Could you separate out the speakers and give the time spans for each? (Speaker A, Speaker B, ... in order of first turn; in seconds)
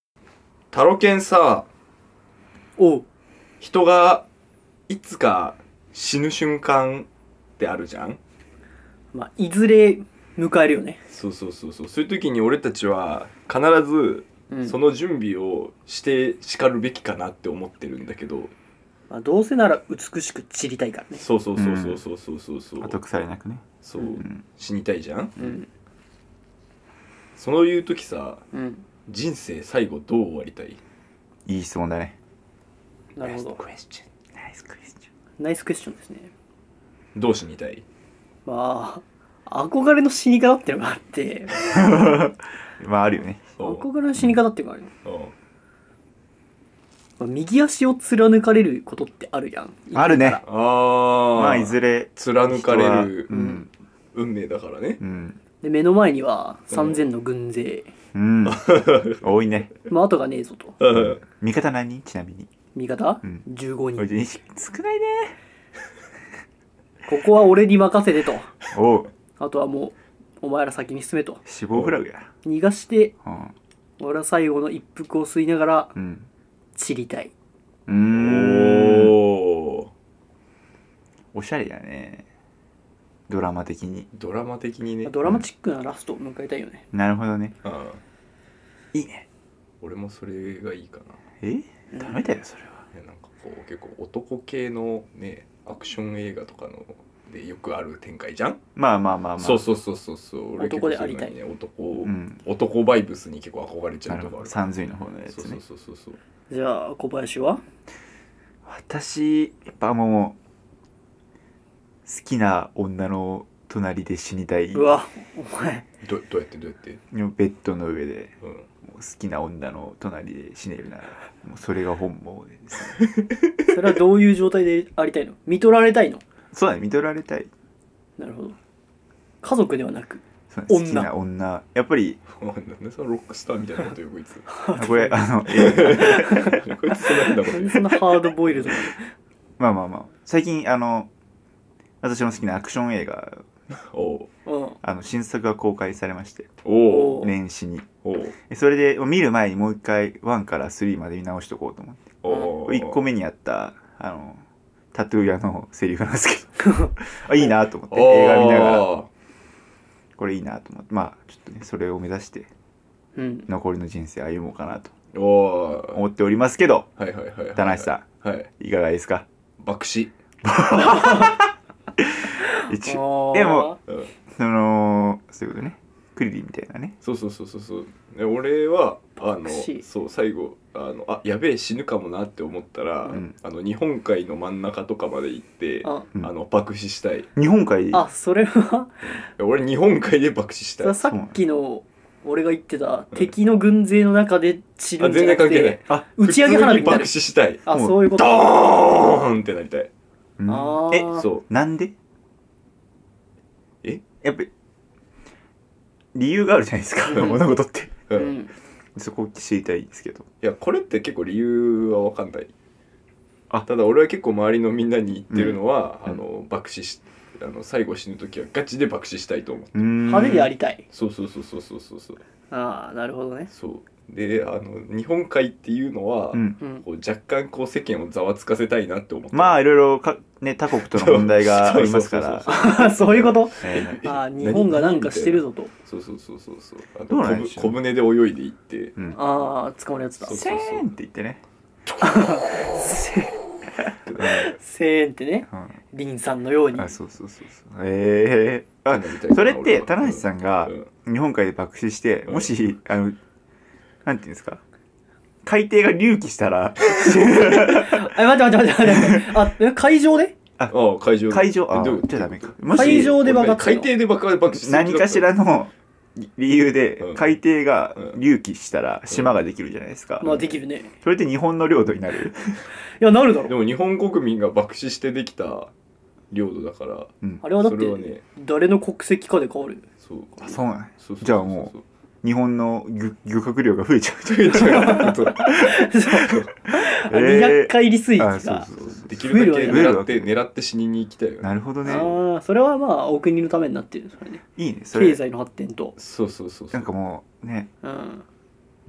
Speaker A: 0.7-1.7, 3.6-4.3, 4.9-7.1, 7.6-8.2, 11.1-18.5, 21.2-23.0, 23.8-25.6, 27.4-28.4, 29.1-30.8, 33.2-34.1, 37.1-37.8, 43.6-43.9, 45.0-45.3, 50.4-53.3, 54.1-55.0, 56.7-57.0, 58.5-59.2, 60.8-61.2, 78.1-79.9, 84.1-85.2, 87.6-88.0, 89.8-91.2, 92.9-98.6, 99.4-104.6, 105.3-106.2, 116.0-117.0, 132.3-134.5, 135.5-138.9, 143.7-144.3, 146.6-147.2, 148.0-148.3, 152.2-153.0, 157.9-159.1, 165.1-166.0, 167.0-168.5, 169.6-170.1, 173.9-174.1, 177.0-187.3, 189.0-191.0, 195.0-199.9, 201.1-201.4, 208.1-208.3, 210.4-212.5, 213.7-220.3, 220.9-222.2, 223.5-229.7, 230.8-239.0, 240.2-240.9, 244.1-244.5, 248.9-250.9, 252.3-252.6, 260.7-265.3, 267.0-267.4, 269.1-269.4, 273.5-275.7, 276.3-278.2, 280.0-281.8, 284.2-285.6, 286.2-286.5, 288.7-292.2, 296.0-296.9
Speaker B: 2.8-3.1, 9.1-11.0, 14.5-14.8, 19.1-21.3, 25.4-25.7, 28.5-28.8, 33.2-33.6, 35.4-36.3, 38.5-41.6, 43.6-44.9, 47.2-50.4, 53.3-53.7, 55.6-57.9, 59.9-60.8, 62.8-64.1, 67.1-68.5, 69.4-71.4, 72.4-73.1, 74.0-76.0, 76.8-77.3, 85.0-86.8, 91.9-92.2, 100.6-101.3, 106.5-107.6, 114.7-115.8, 123.7-126.2, 128.2-128.6, 129.4-131.1, 134.5-136.6, 137.1-139.1, 144.5-144.8, 146.8-147.3, 163.2-163.5, 172.6-173.8, 179.3-179.8, 187.9-189.0, 190.8-197.1, 197.6-198.5, 200.5-201.3, 207.1-207.4, 208.2-208.5, 220.1-220.8, 222.5-223.5, 232.5-235.7, 239.1-240.5, 242.0-243.4, 244.2-247.0, 257.3-260.3, 262.7-263.9, 270.2-270.9, 272.7-273.6, 277.4-279.8, 284.6-290.0, 291.8-295.9, 297.8-298.2
Speaker C: 21.6-22.0, 22.8-24.4, 31.5-32.2, 34.4-35.0, 41.6-43.5, 49.9-50.4, 51.3-53.7, 55.0-55.4, 58.1-59.7, 60.9-62.5, 64.0-65.3, 68.7-69.1, 71.5-72.3, 73.2-73.5, 76.0-76.3, 77.9-79.2, 81.3-82.2, 83.3-84.1, 86.9-87.6, 88.9-89.2, 91.4-92.8, 98.8-99.7, 102.0-102.4, 104.1-105.6, 108.7-110.4, 112.1-114.9, 117.1-118.3, 118.9-123.0, 126.5-127.5, 130.5-132.2, 134.7-136.4, 139.6-141.1, 142.0-143.4, 144.8-146.5, 147.0-147.9, 148.5-154.4, 154.9-158.9, 160.2-162.5, 163.5-164.9, 165.9-166.9, 167.6-169.3, 170.4-176.9, 187.3-188.1, 191.1-191.4, 197.7-198.0, 200.4-201.9, 204.2-204.5, 206.1-208.0, 209.0-210.3, 215.3-216.2, 219.7-220.5, 229.3-232.6, 233.6-234.0, 237.1-237.8, 240.3-241.4, 244.2-244.5, 246.7-253.2, 254.1-254.6, 255.4-258.1, 258.9-259.4, 261.3-263.2, 264.5-272.6, 280.4-281.7, 282.2-285.7, 286.7-290.3, 291.4-292.1, 294.6-295.2, 296.7-297.7